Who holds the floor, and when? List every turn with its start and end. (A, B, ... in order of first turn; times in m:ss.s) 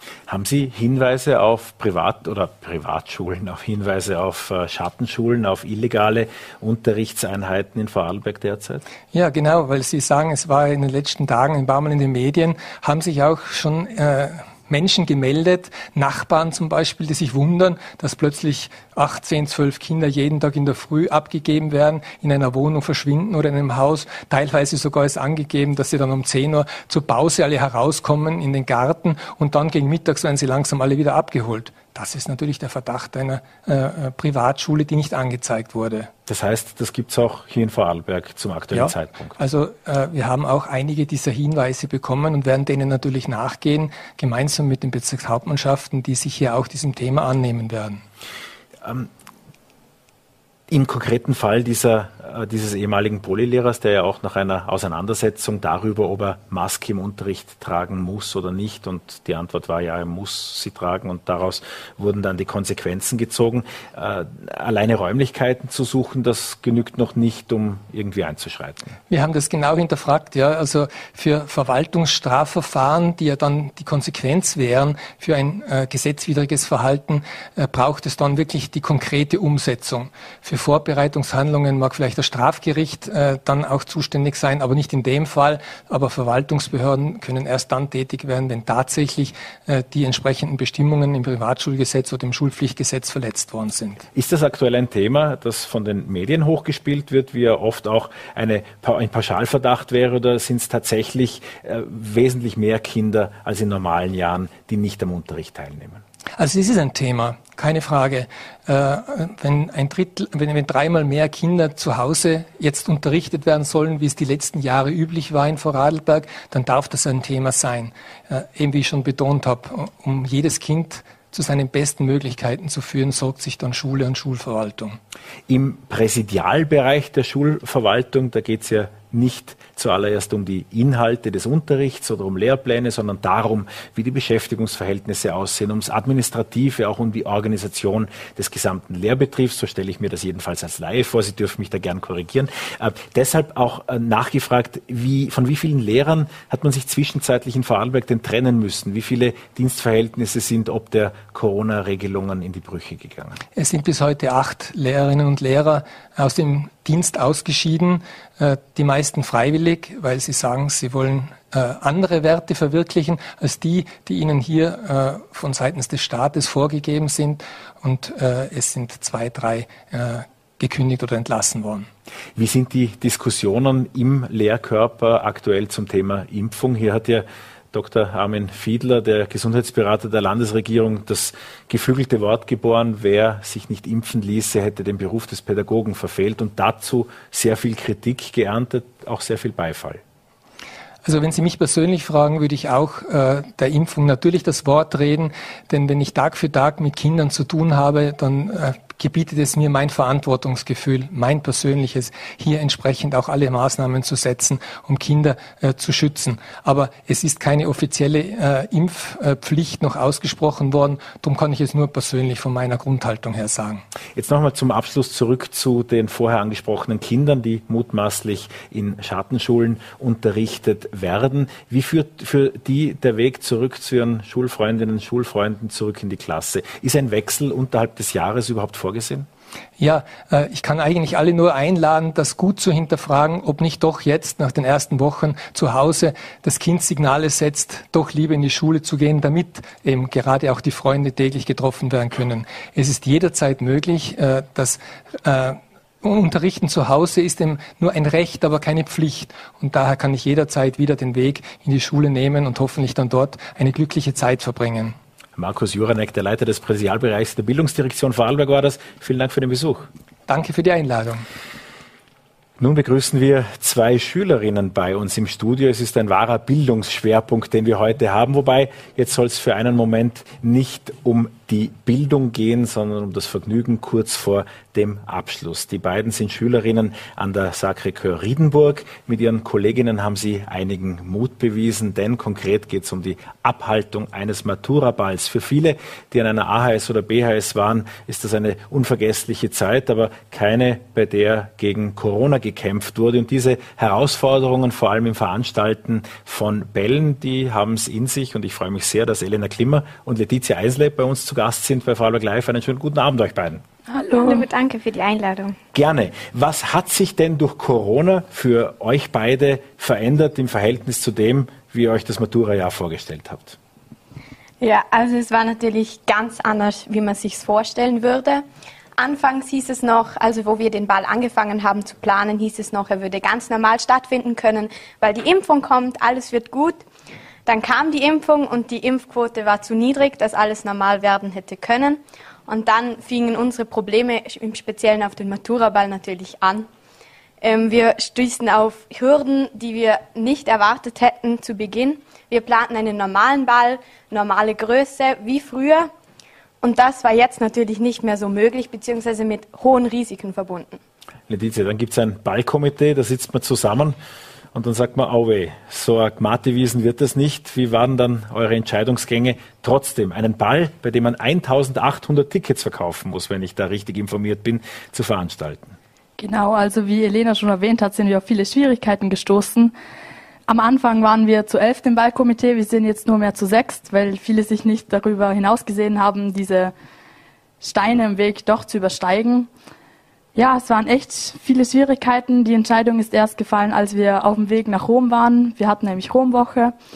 0:00.3-0:08.8 A
0:09.1-0:36.1 B
0:36.3-0:39.4 A
0:38.7-0:48.0 B
0:48.8-0:49.1 A
0:50.7-1:08.9 A
1:09.1-1:34.1 B
1:34.1-1:46.0 A
1:46.4-2:05.0 B
2:05.5-2:33.4 A
2:33.6-2:51.9 B
2:52.4-3:10.0 A
3:11.0-3:33.8 B
3:34.2-3:49.3 A
3:49.8-4:14.9 B
4:15.4-4:19.9 A
4:20.3-4:21.3 B
4:22.6-5:03.6 A
5:04.0-5:04.4 C
5:04.1-5:05.6 D
5:05.7-5:13.6 A
5:14.6-5:18.4 D
5:19.0-5:26.8 D
5:27.4-5:36.7 D
5:37.4-5:45.9 D
5:46.6-5:50.8 D
5:51.3-5:54.0 A
5:54.5-6:05.8 A
6:06.2-6:09.7 C
6:10.5-6:16.7 C
6:17.6-6:19.5 C
6:20.3-6:26.8 C